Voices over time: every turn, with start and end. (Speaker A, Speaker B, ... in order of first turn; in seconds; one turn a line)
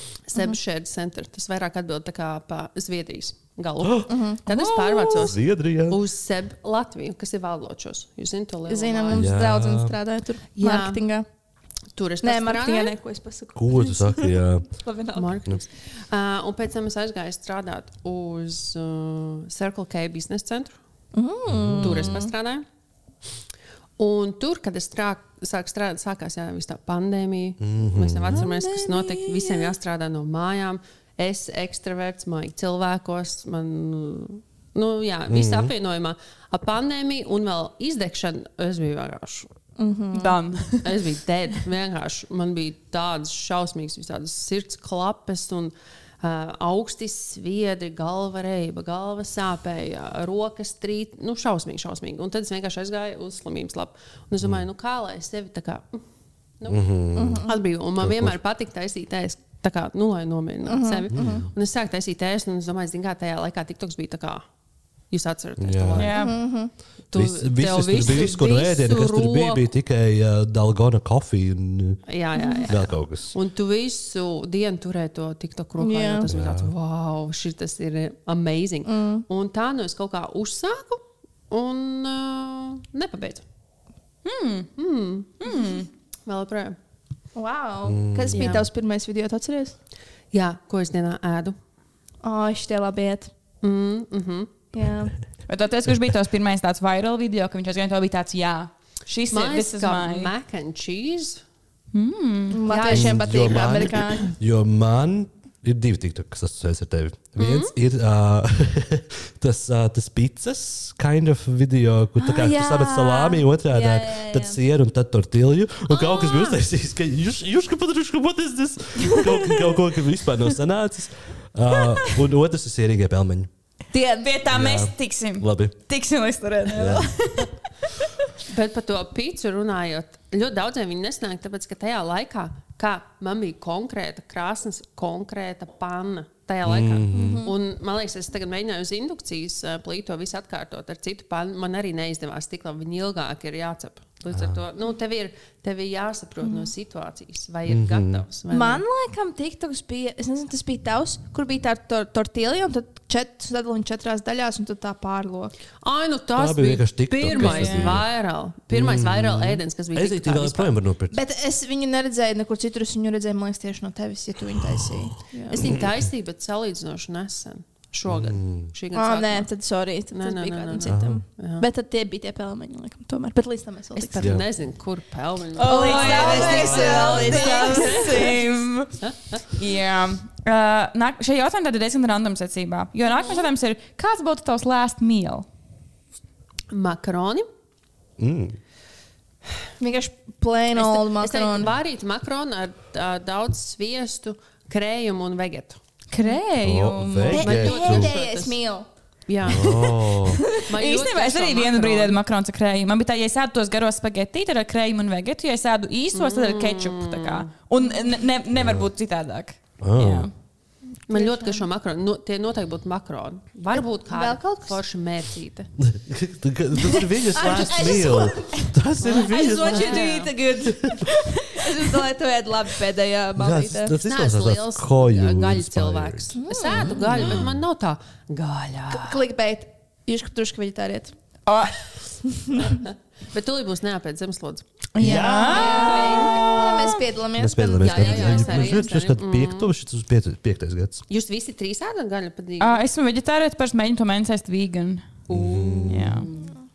Speaker A: 0.3-9.3
Speaker B: 3.8-6.0
Speaker C: 4.1-4.4
Speaker C: 8.7-11.2
Speaker B: 9.1-10.0
Speaker A: 10.6-11.0
Speaker A: 11.9-13.0
Speaker C: 12.2-15.4
Speaker B: 13.6-14.7
Speaker A: 15.2-20.8
Speaker C: 21.1-22.3
Speaker B: 21.5-22.2
Speaker A: 21.8-22.6
Speaker A: 24.0-39.5
Speaker B: 27.6-28.4
Speaker C: 28.3-29.7
Speaker B: 35.3-35.7
Speaker C: 39.8-40.4
Speaker D: 40.1-41.0
Speaker A: 40.8-56.0
Speaker B: 56.7-58.4
Speaker C: 57.1-57.5
Speaker A: 57.4-64.4
Speaker C: 60.6-61.4
Speaker B: 61.1-61.5
Speaker A: 65.1-66.3
Speaker B: 65.6-66.1
Speaker D: 66.0-66.3
Speaker C: 66.1-66.7
Speaker A: 67.1-69.7
Speaker B: 67.1-72.0
Speaker A: 72.1-83.4
Speaker C: 72.3-72.7
Speaker B: 72.7-73.3
Speaker C: 75.8-76.3
Speaker B: 76.3-76.7
Speaker C: 78.8-79.2
Speaker D: 84.2-84.7
Speaker A: 84.8-85.5
Speaker D: 85.4-85.9
Speaker A: 86.2-86.8
Speaker C: 87.3-89.8
Speaker B: 87.8-88.5
Speaker A: 88.3-88.7
Speaker A: 90.3-91.6
Speaker C: 92.2-93.3
Speaker A: 93.6-94.5
Speaker C: 94.7-95.1
Speaker D: 95.5-100.3
Speaker A: 99.3-101.4
Speaker D: 101.9-102.6
Speaker C: 102.5-104.3
Speaker A: 102.7-103.5
Speaker B: 102.9-123.5
Speaker A: 107.4-107.7
Speaker C: 112.2-114.6
Speaker C: 115.9-116.5
Speaker C: 123.9-124.3
Speaker D: 124.2-128.1
Speaker B: 124.5-125.7
Speaker B: 126.7-127.1
Speaker A: 128.5-148.8
Speaker B: 136.6-137.4
Speaker C: 137.1-137.5
Speaker B: 144.3-144.6
Speaker C: 146.4-146.7
Speaker B: 147.7-148.2
Speaker C: 148.5-155.5
Speaker A: 155.8-160.8
Speaker B: 156.3-158.1
Speaker D: 157.2-158.0
Speaker B: 158.7-161.2
Speaker C: 161.1-165.8
Speaker B: 164.8-166.1
Speaker A: 165.5-169.5
Speaker B: 168.1-168.7
Speaker C: 168.9-174.3
Speaker A: 170.1-171.6
Speaker B: 170.8-171.2
Speaker A: 173.9-178.4
Speaker B: 174.2-174.5
Speaker D: 175.6-178.9
Speaker C: 175.6-178.3
Speaker B: 176.4-177.3
Speaker A: 179.0-179.4
Speaker D: 179.5-185.4
Speaker A: 186.7-187.5
Speaker B: 188.2-188.6
Speaker C: 189.8-191.7
Speaker A: 190.7-195.8
Speaker D: 196.1-197.5
Speaker B: 196.6-198.1
Speaker A: 197.3-198.6
Speaker C: 197.3-198.8
Speaker A: 199.3-199.8
Speaker B: 199.4-200.4
Speaker D: 200.6-210.3
Speaker A: 200.7-202.2
Speaker A: 206.1-207.4
Speaker B: 208.5-208.9
Speaker B: 209.8-210.3
Speaker C: 211.1-211.6
Speaker A: 211.1-215.7
Speaker C: 213.7-214.8
Speaker B: 215.8-220.1
Speaker C: 216.8-224.0
Speaker A: 219.0-220.3
Speaker B: 220.6-221.0
Speaker B: 223.3-227.6
Speaker A: 224.0-229.2
Speaker C: 226.3-227.0
Speaker C: 228.9-231.1
Speaker D: 231.4-231.7
Speaker C: 232.2-232.8
Speaker A: 232.7-234.7
Speaker D: 234.9-237.0
Speaker B: 235.0-235.7
Speaker C: 235.0-238.8
Speaker A: 235.5-236.4
Speaker B: 237.4-241.0
Speaker A: 237.8-239.7
Speaker A: 241.1-242.8
Speaker D: 242.6-245.1
Speaker B: 245.3-246.3
Speaker A: 245.3-246.5
Speaker D: 245.9-246.3